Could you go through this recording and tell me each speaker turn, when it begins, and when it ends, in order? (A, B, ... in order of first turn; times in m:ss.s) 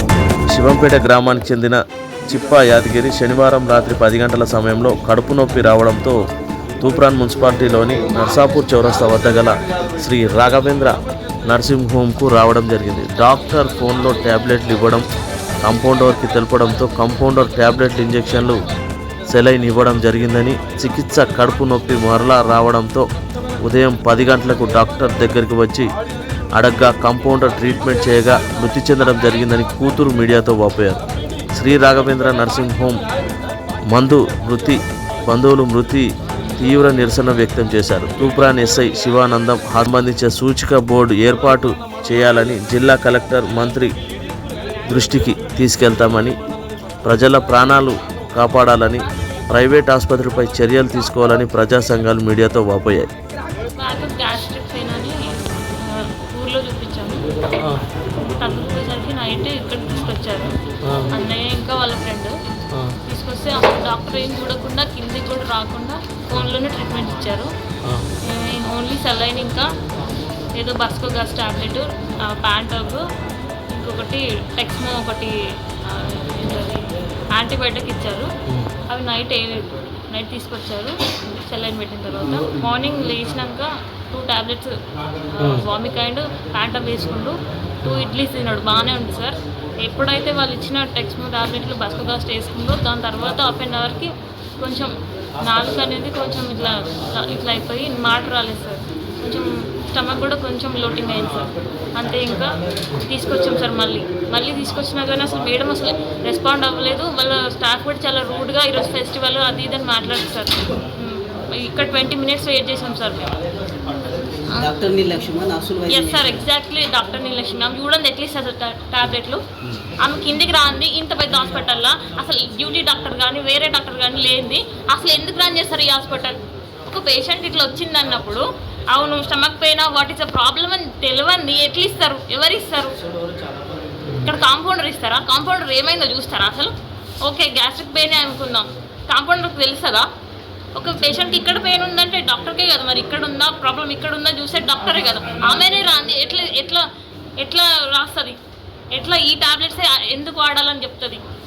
0:00.5-0:06.2 A
0:06.8-0:15.0 A
0:15.6-0:18.6 A
0:19.3-0:23.1 A
0:23.6-0:25.9 A
0:26.6-0:31.0 A
0:31.5-0:33.0 A
0:33.9-0:43.9 A
0:44.9-0:46.4 A
0:47.0-0:53.1 A
0:53.8-0:57.3 B
0:57.6-0:57.8 A
0:58.2-1:00.6 B
1:00.8-1:01.2 A
1:01.1-1:02.4 B
1:02.7-1:03.0 A
1:03.0-1:07.5 B
1:08.2-1:09.7 B
1:10.6-1:13.0 B
1:13.7-1:18.3 B
1:18.9-1:24.8 B
1:25.3-1:53.4 B
1:25.4-1:25.7 A
1:54.5-1:54.7 B
1:54.5-1:56.5 C
1:55.9-1:59.4 B
2:00.0-2:13.0 B
2:14.1-2:16.7 B
2:17.2-2:20.1 B
2:20.7-2:26.9 B
2:27.4-2:28.4 B
2:28.9-2:31.2 B